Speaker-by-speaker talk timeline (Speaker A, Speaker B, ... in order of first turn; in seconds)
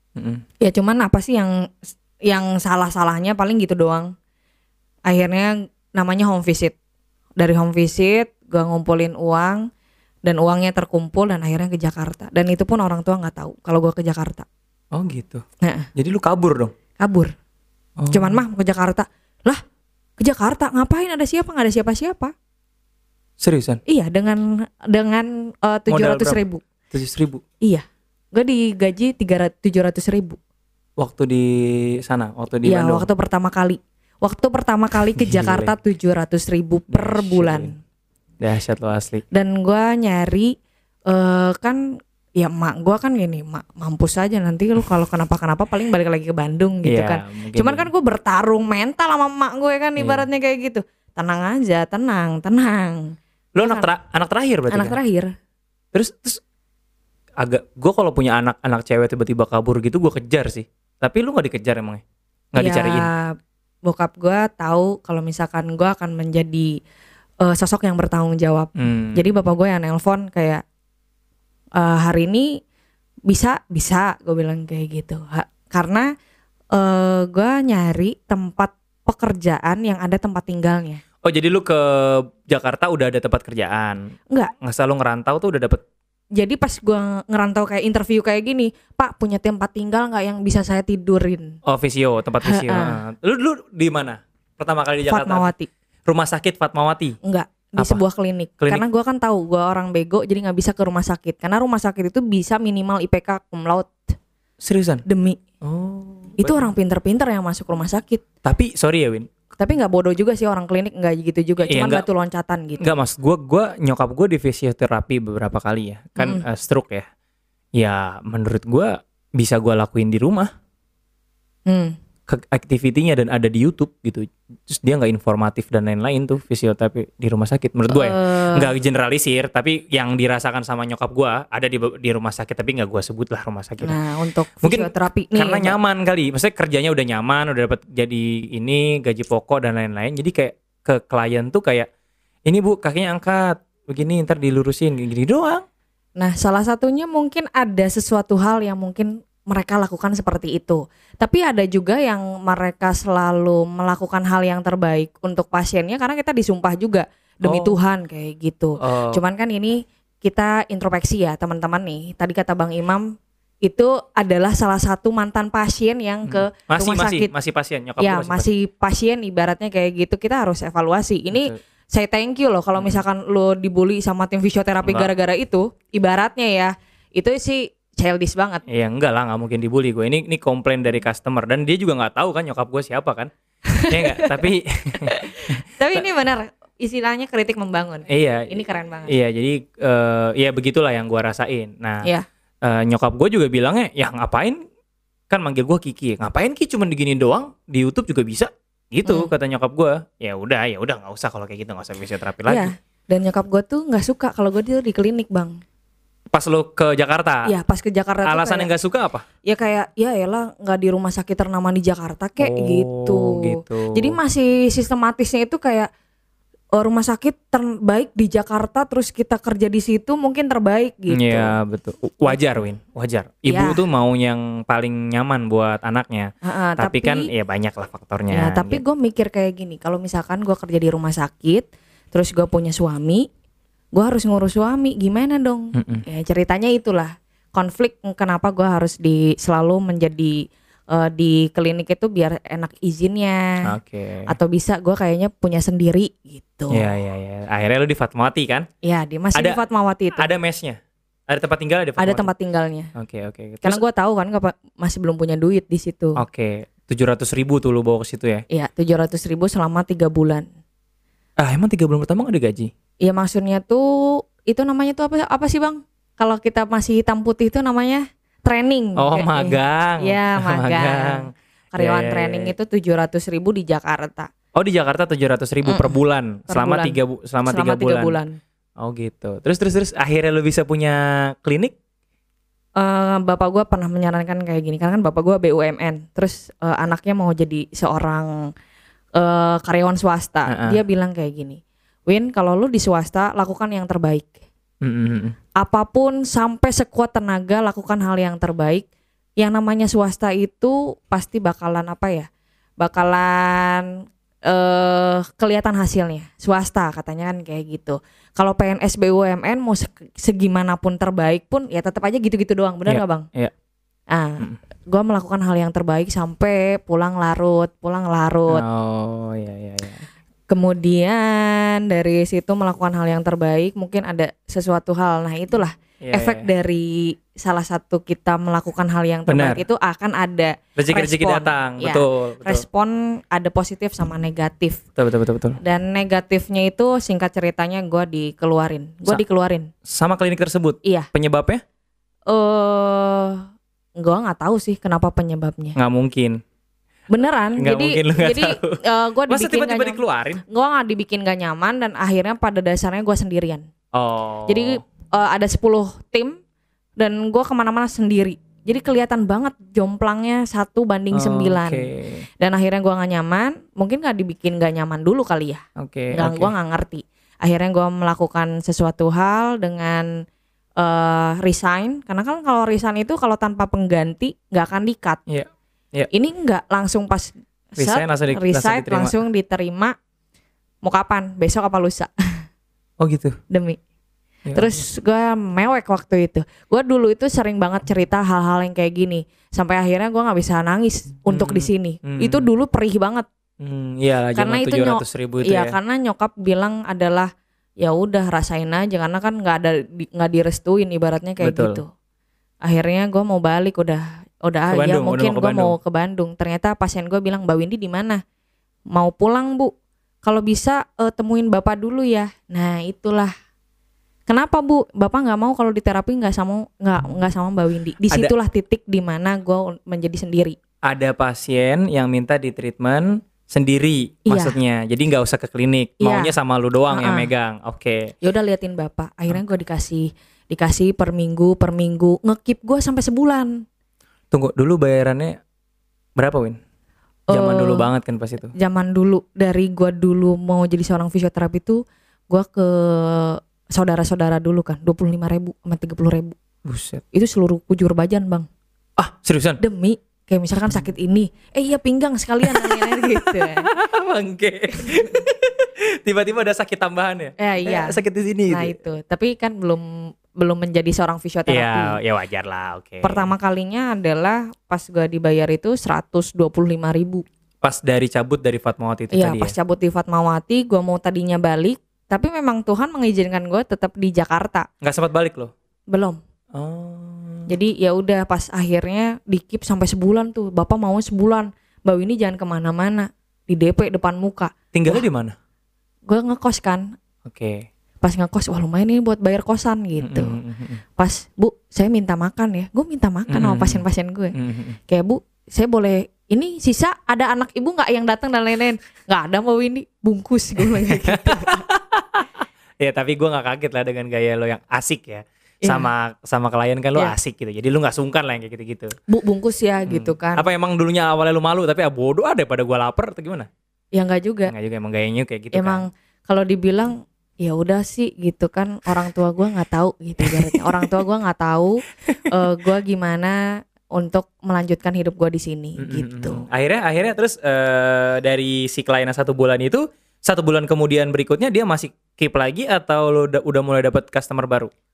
Speaker A: 0.2-0.4, 14.9-15.4, 15.9-16.7, 18.0-18.4, 23.4-23.8, 25.9-27.4, 31.0-33.1, 35.2-35.7, 36.9-37.7, 38.4-39.2, 46.9-47.9, 50.0-50.3, 53.5-55.0, 55.9-56.4, 57.4-62.0, 62.5-63.1, 68.8-69.2, 81.2-84.1, 84.6-85.8, 91.6-95.5, 96.1-97.2, 104.6-105.0, 105.6-106.7, 108.4-109.3, 111.7-112.0, 112.8-117.1, 117.8-120.5, 122.3-134.0, 134.6-141.9, 142.5-145.6, 157.4-157.8, 158.8-159.2, 166.3-168.5, 171.3-171.6, 172.8-173.0, 174.8-175.1, 178.7-183.3, 183.9-186.0, 188.1-188.5, 189.1-192.1, 192.6-194.6, 195.3-202.7, 206.3-207.5, 208.2-209.2, 212.4-214.2, 221.1-228.8, 235.7-236.0, 243.7-244.3, 246.7-248.7, 249.3-249.6, 250.2-252.3, 252.9-253.8, 256.2-258.4, 261.4-262.7, 269.0-272.5, 274.5-278.2, 278.8-281.7, 290.5-290.8, 294.8-295.4, 312.9-313.5, 318.5-320.0, 326.0-326.4, 329.3-329.6, 330.8-332.6, 335.0-335.6, 339.9-341.6, 345.8-346.4, 347.6-350.4, 353.9-354.8, 361.1-362.3, 365.8-366.5, 375.3-376.1, 377.8-379.1, 383.0-383.4, 384.4-384.8, 391.3-392.5, 393.6-395.8, 401.4-401.8, 404.7-405.7, 420.9-428.1, 434.3-435.4, 436.2-436.6, 437.3-438.5, 446.6-447.0, 449.0-449.6, 452.4-458.7, 461.5-463.3, 467.6-469.5, 474.8-475.5, 476.5-477.5, 484.7-485.4, 487.2-487.7, 490.0-490.8, 493.3-493.8, 494.4-494.8, 500.7-508.9, 509.9-513.5, 514.5-515.8, 520.2-521.0, 525.8-534.7
Speaker B: 0.6-4.1, 5.1-6.8, 7.4-9.7, 10.2-14.5, 15.6-15.9, 17.0-17.3, 18.1-19.6, 20.2-22.3, 23.9-26.6, 27.6-30.4, 32.6-37.8, 39.3-40.5, 41.1-41.8, 42.4-53.9, 54.7-55.3, 62.6-63.3, 63.9-66.8, 67.4-70.6, 71.8-72.5, 73.3-76.1, 76.7-81.0, 86.4-91.6, 92.4-93.0, 95.1-95.7, 97.2-104.1, 105.1-105.4, 106.4-108.2, 109.6-112.9, 116.2-116.5, 121.7-122.0, 127.9-128.7, 133.8-135.8, 146.2-167.3, 168.0-178.6, 183.7-184.5, 185.0-189.1, 199.1-199.3, 202.4-205.6, 207.4-208.7, 209.4-215.9, 216.8-221.6, 223.5-223.8, 226.4-227.3, 228.3-233.3, 233.9-243.6, 244.3-246.9, 248.8-250.3, 252.0-252.9, 253.6-256.2, 258.5-260.4, 263.0-274.3, 275.6-276.0, 276.5-278.4, 282.8-288.3, 289.2-294.3, 295.6-298.9, 299.4-302.3, 302.8-303.9, 304.5-313.3, 314.1-318.6, 320.5-334.8, 335.6-339.7, 342.3-343.4, 344.0-345.8, 347.1-353.6, 354.5-356.4, 357.0-361.9, 362.4-370.1, 370.8-375.2, 376.1-379.9, 380.8-382.1, 383.5-383.8, 384.5-393.3, 394.4-397.3, 397.8-401.9, 402.6-408.2, 408.9-409.7, 410.2-413.3, 414.3-420.6, 424.3-424.6, 426.0-426.4, 426.9-427.3, 428.2-433.6, 437.3-437.9, 438.5-446.4, 447.1-448.5, 449.6-453.7, 457.4-462.0, 463.0-467.2, 469.1-474.7, 475.9-476.2, 477.5-485.0, 486.1-487.0, 488.0-490.4, 491.0-494.4, 494.9-501.6, 505.6-505.9, 509.1-510.5, 514.0-514.5, 515.5-523.4, 524.0-526.4